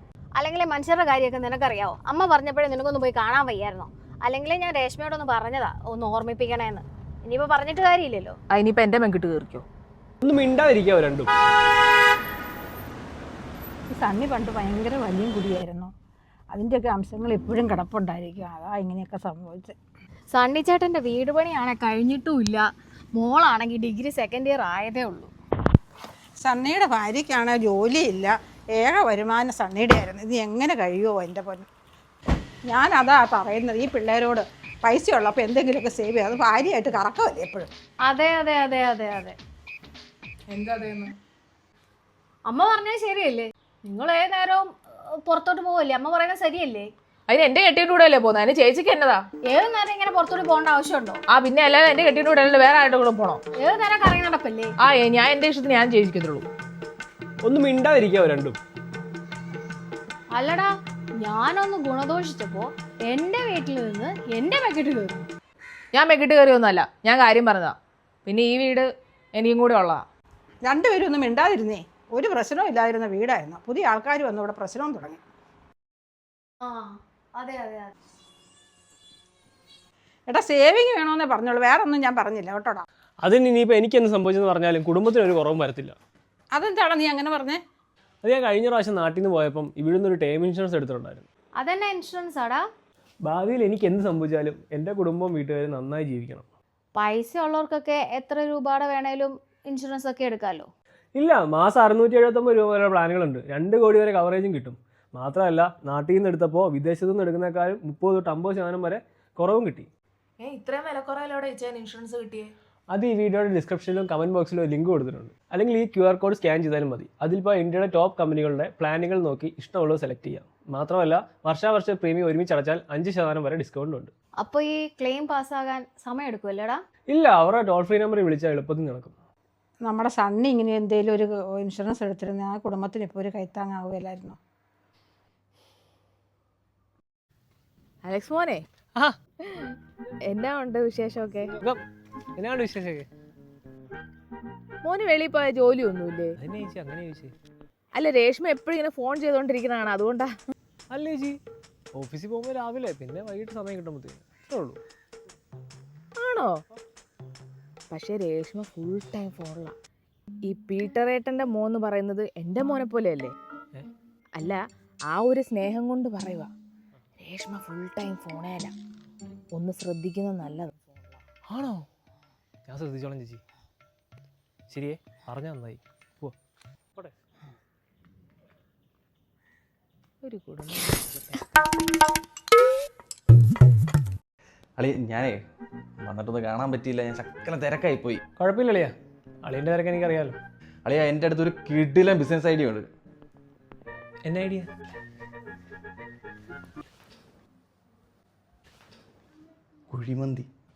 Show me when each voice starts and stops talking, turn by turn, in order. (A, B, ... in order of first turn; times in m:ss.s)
0:00.3-0:08.4 A
0:08.5-0:09.6 B
0:10.2-0:11.3 C
0:13.9-0:15.9 D
0:16.5-0:19.7 D
0:20.3-0:25.3 A
0:26.4-0:31.7 D
0:32.7-0:37.7 D
0:38.0-0:39.4 A
0:40.5-0:41.1 B
0:42.4-0:46.9 A
0:47.3-0:49.2 B
0:49.4-0:51.2 A
0:51.3-0:53.4 B
0:53.5-0:54.7 A
0:54.8-0:56.4 B
0:57.4-0:58.6 C
1:00.3-1:05.3 A
1:05.9-1:10.0 B
1:10.6-1:15.2 D
1:16.6-1:17.9 A
1:20.3-1:22.8 D
1:23.2-1:26.0 C
1:26.5-1:27.6 D
1:28.2-1:31.2 C
1:31.6-1:32.6 A
1:33.2-1:36.4 C
1:36.9-1:40.7 A
1:41.2-1:49.9 C
1:50.4-1:52.5 B
1:52.9-2:04.1 C
2:04.4-2:06.8 A
2:07.1-2:09.2 C
2:09.8-2:14.4 D
2:18.0-2:18.6 B
2:19.4-2:19.8 B
2:20.3-2:21.5 B
2:22.4-2:23.1 C
2:24.8-2:26.4 B
2:26.4-2:27.3 C
2:27.9-2:30.3 B
2:30.9-2:31.4 C
2:31.9-2:34.8 C
2:36.2-2:36.6 B
2:37.9-2:39.7 B
2:40.4-2:43.3 B
2:44.4-2:46.5 B
2:47.2-2:48.7 B
2:49.5-2:50.7 B
2:51.5-2:51.8 C
2:52.7-2:53.4 C
2:54.7-2:56.3 C
3:00.2-3:01.4 B
3:04.8-3:05.4 E
3:06.0-3:08.2 E
3:08.4-3:10.4 C
3:10.8-3:12.9 E
3:14.2-3:14.7 C
3:19.9-3:20.5 E